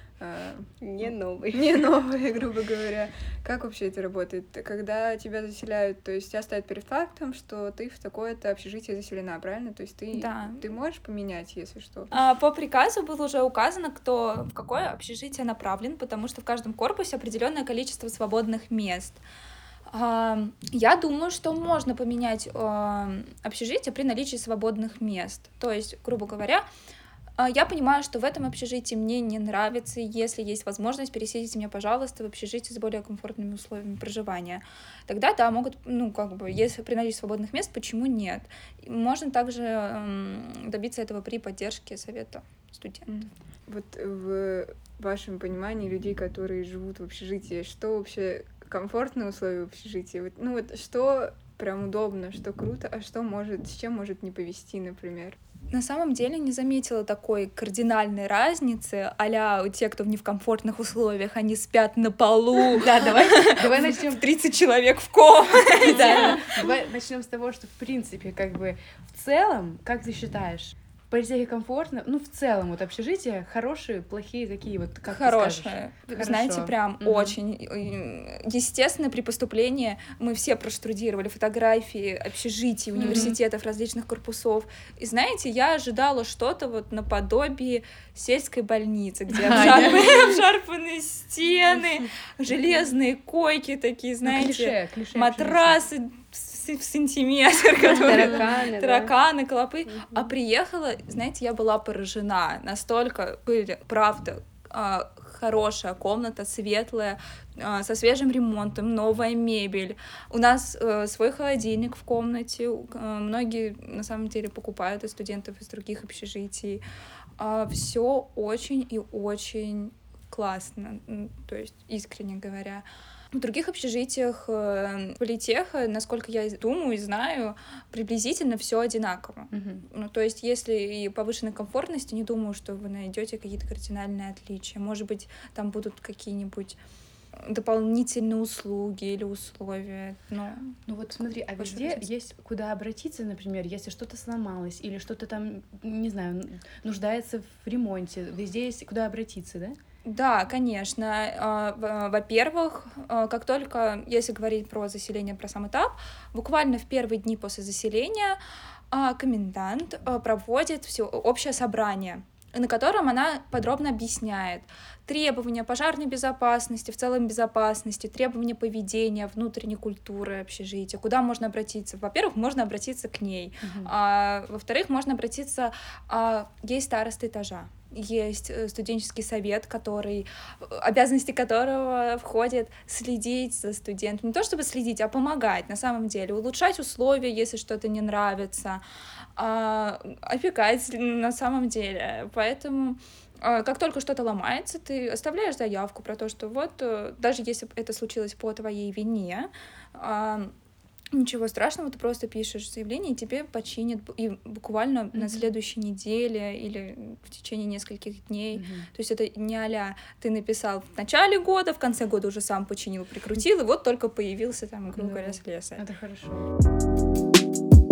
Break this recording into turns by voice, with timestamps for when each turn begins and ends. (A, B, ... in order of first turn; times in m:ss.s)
0:00.2-0:00.7 A
0:00.8-0:01.6 B
0:01.0-0:01.4 C
0:01.5-0:12.1 A
0:10.1-0:10.6 D
0:12.1-0:19.2 D
0:19.9-0:26.7 D
0:27.4-0:43.1 D
0:43.1-0:55.4 A
0:55.7-1:06.6 D
1:02.6-1:04.3 C
1:05.8-1:17.4 C
1:15.1-1:56.8 D
1:23.0-1:23.4 C
1:29.3-1:30.3 C
1:34.2-1:35.8 C
1:37.9-1:39.1 B
1:57.4-2:16.8 D
2:09.5-2:09.8 C
2:17.4-2:20.8 D
2:20.9-2:29.8 C
2:21.6-2:22.1 D
2:30.0-2:38.4 D
2:38.9-3:08.8 D
2:53.6-2:53.9 C
3:09.4-3:20.5 D
3:21.1-3:35.8 D
3:25.2-3:25.5 C
3:28.5-3:28.9 C
3:35.0-3:36.5 C